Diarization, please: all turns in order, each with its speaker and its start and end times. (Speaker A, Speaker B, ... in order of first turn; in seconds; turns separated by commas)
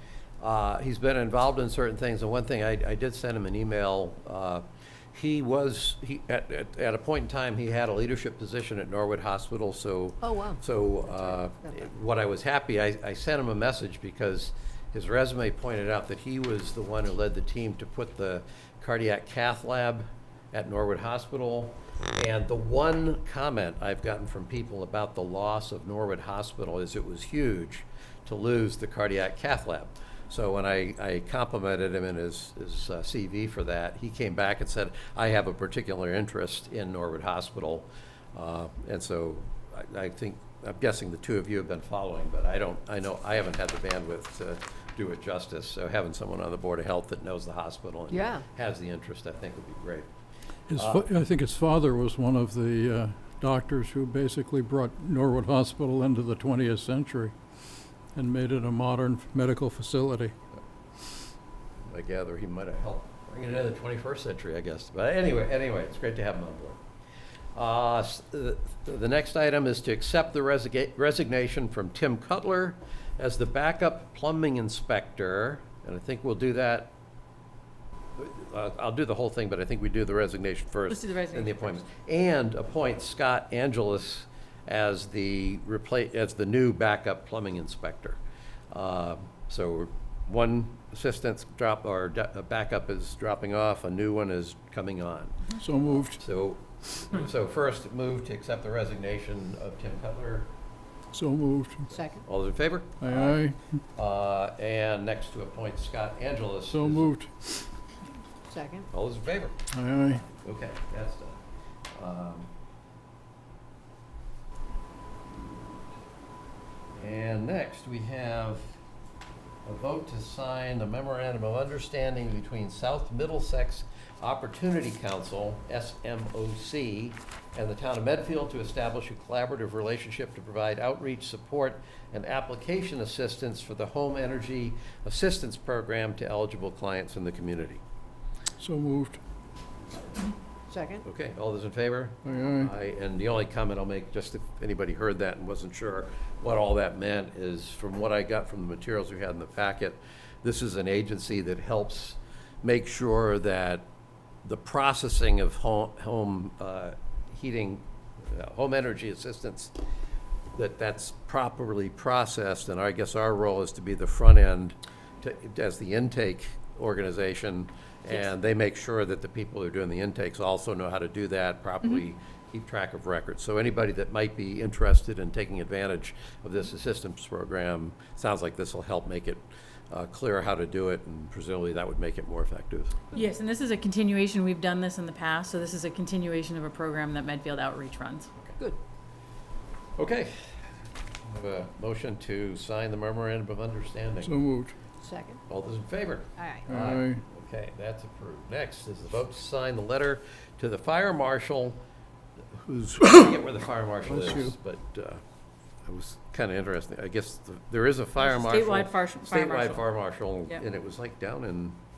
Speaker A: 0.4-50.1, Speaker B: 10.2-10.6, Speaker B: 48.1-48.4, Speaker C: 50.7-57.4, Speaker A: 50.7-51.1, Speaker C: 58.1-60.4, Speaker A: 61.9-66.8, Speaker A: 67.5-76.9, Speaker A: 78.2-88.2, Speaker D: 80.9-81.8, Speaker A: 88.7-95.5, Speaker C: 95.5-96.2, Speaker A: 96.1-100.5, Speaker C: 101.1-102.0, Speaker B: 101.9-102.2, Speaker A: 102.2-103.4, Speaker C: 103.0-103.6, Speaker A: 104.0-107.1, Speaker C: 106.7-107.6, Speaker B: 108.5-108.9, Speaker A: 108.9-109.6, Speaker C: 109.7-110.2, Speaker A: 110.1-111.4, Speaker A: 111.9-112.5, Speaker A: 117.0-118.8, Speaker A: 119.7-137.8, Speaker C: 138.6-139.2, Speaker B: 140.7-141.0, Speaker A: 141.0-153.9, Speaker C: 142.2-142.7, Speaker A: 154.4-159.7, Speaker A: 160.5-183.0, Speaker D: 183.1-188.3, Speaker A: 190.0-190.5, Speaker A: 191.2-194.3, Speaker C: 194.2-194.8, Speaker B: 195.0-195.4, Speaker A: 195.5-201.8, Speaker B: 196.4-196.7, Speaker C: 196.7-197.2, Speaker A: 202.5-205.2, Speaker C: 204.1-204.5, Speaker A: 205.9-211.8, Speaker D: 208.2-209.8